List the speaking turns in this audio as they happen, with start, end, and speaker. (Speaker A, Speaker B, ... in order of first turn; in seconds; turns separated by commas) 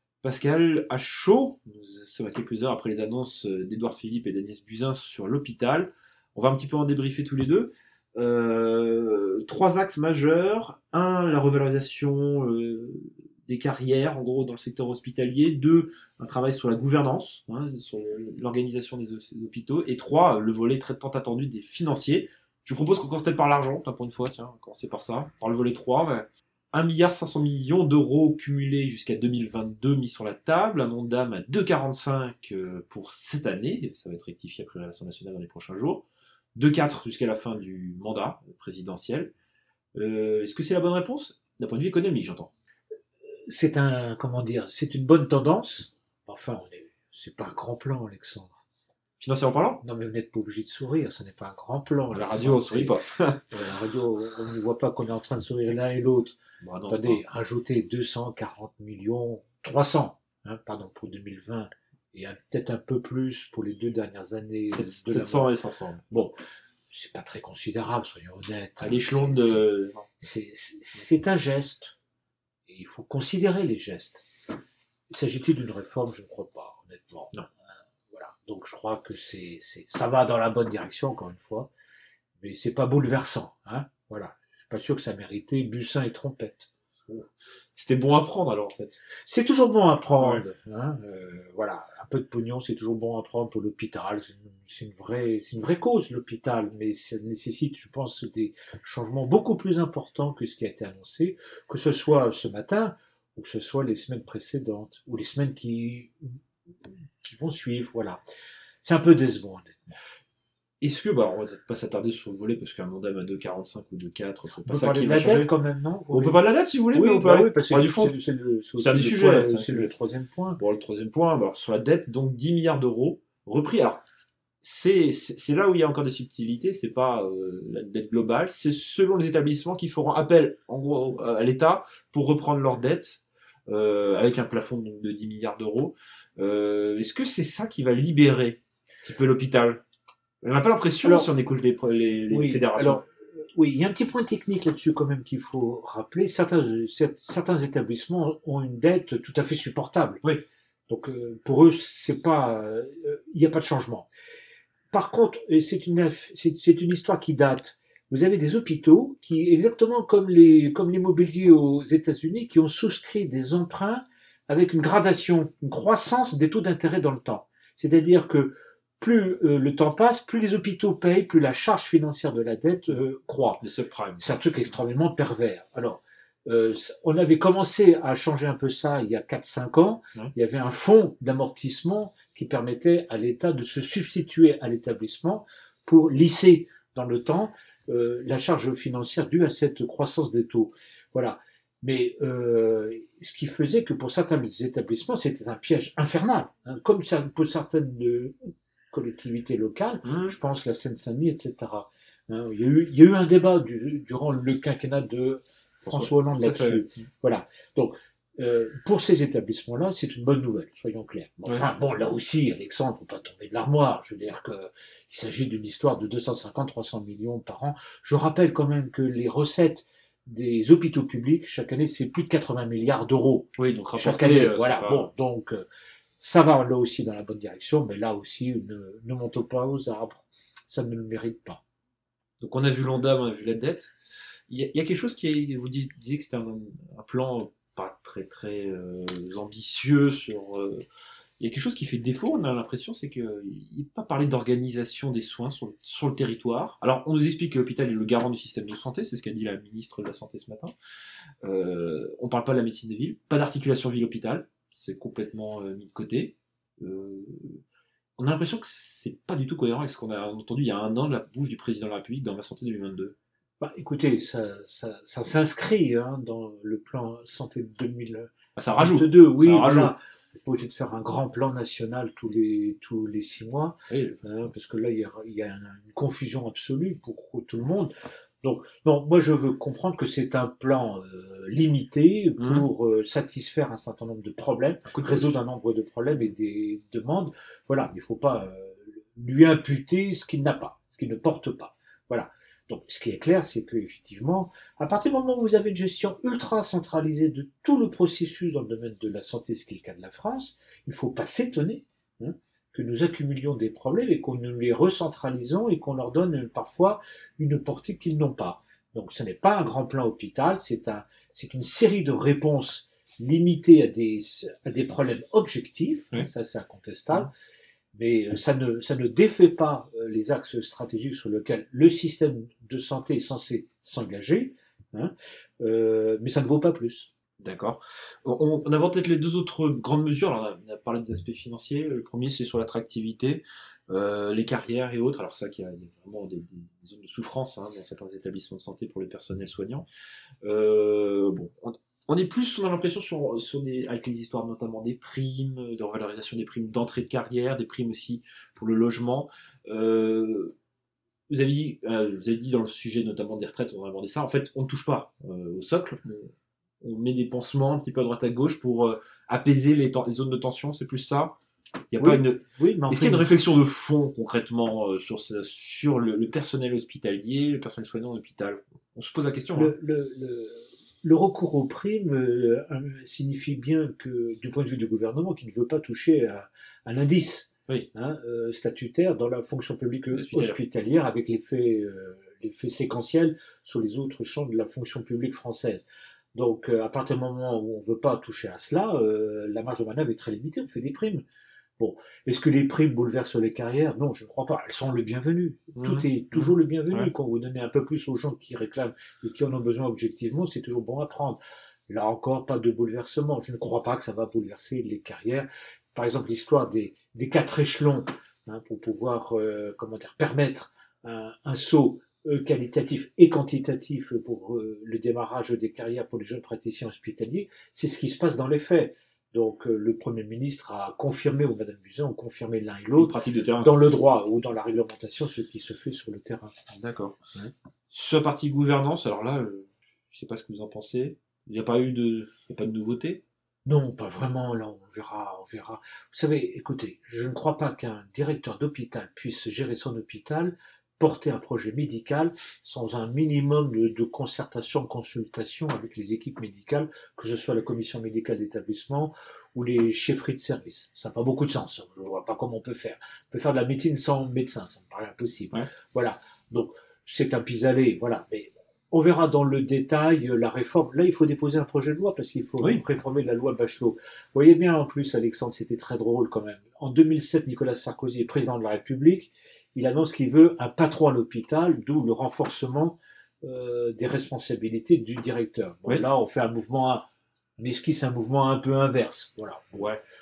Speaker A: 0.2-39.3, Speaker A: 40.0-42.5, Speaker B: 43.5-48.6, Speaker A: 49.2-49.8, Speaker B: 49.8-52.9, Speaker A: 52.1-53.5, Speaker B: 53.5-56.4, Speaker A: 56.6-57.2, Speaker B: 56.9-65.5, Speaker A: 64.7-66.0, Speaker B: 66.1-66.4, Speaker B: 66.9-69.7, Speaker A: 68.8-70.1, Speaker B: 70.2-71.9, Speaker B: 72.7-74.3, Speaker B: 75.1-77.3, Speaker B: 78.1-81.7, Speaker B: 82.4-86.7, Speaker A: 87.1-89.0, Speaker B: 89.2-106.3, Speaker A: 90.2-90.4, Speaker B: 106.8-108.2, Speaker B: 108.8-110.0, Speaker A: 110.8-115.5, Speaker B: 114.7-116.4, Speaker A: 116.1-118.1, Speaker B: 116.9-120.6, Speaker A: 118.8-119.9, Speaker A: 120.6-124.0, Speaker A: 124.6-139.8, Speaker A: 140.4-143.0, Speaker B: 142.3-150.2, Speaker B: 150.9-154.1, Speaker B: 154.9-173.6, Speaker A: 173.6-174.6, Speaker B: 174.2-225.7, Speaker A: 200.0-200.4, Speaker A: 205.9-206.9, Speaker A: 223.6-225.1, Speaker B: 226.2-231.6, Speaker A: 232.4-233.9, Speaker A: 234.5-240.8, Speaker A: 241.4-250.7, Speaker A: 251.4-257.6, Speaker A: 258.2-263.2, Speaker B: 263.6-317.3, Speaker A: 268.6-269.9, Speaker A: 273.9-274.3, Speaker A: 282.4-282.7, Speaker A: 284.9-285.3, Speaker B: 317.9-327.1, Speaker A: 327.4-339.9, Speaker A: 340.4-350.6, Speaker A: 351.3-361.4, Speaker A: 361.9-369.8, Speaker B: 362.0-363.3, Speaker B: 369.6-391.2, Speaker A: 380.1-380.6, Speaker B: 391.8-426.5, Speaker A: 395.8-397.1, Speaker A: 423.0-423.7, Speaker A: 426.7-427.2, Speaker A: 427.9-433.2, Speaker B: 433.6-477.1, Speaker B: 477.6-479.8, Speaker A: 479.8-480.0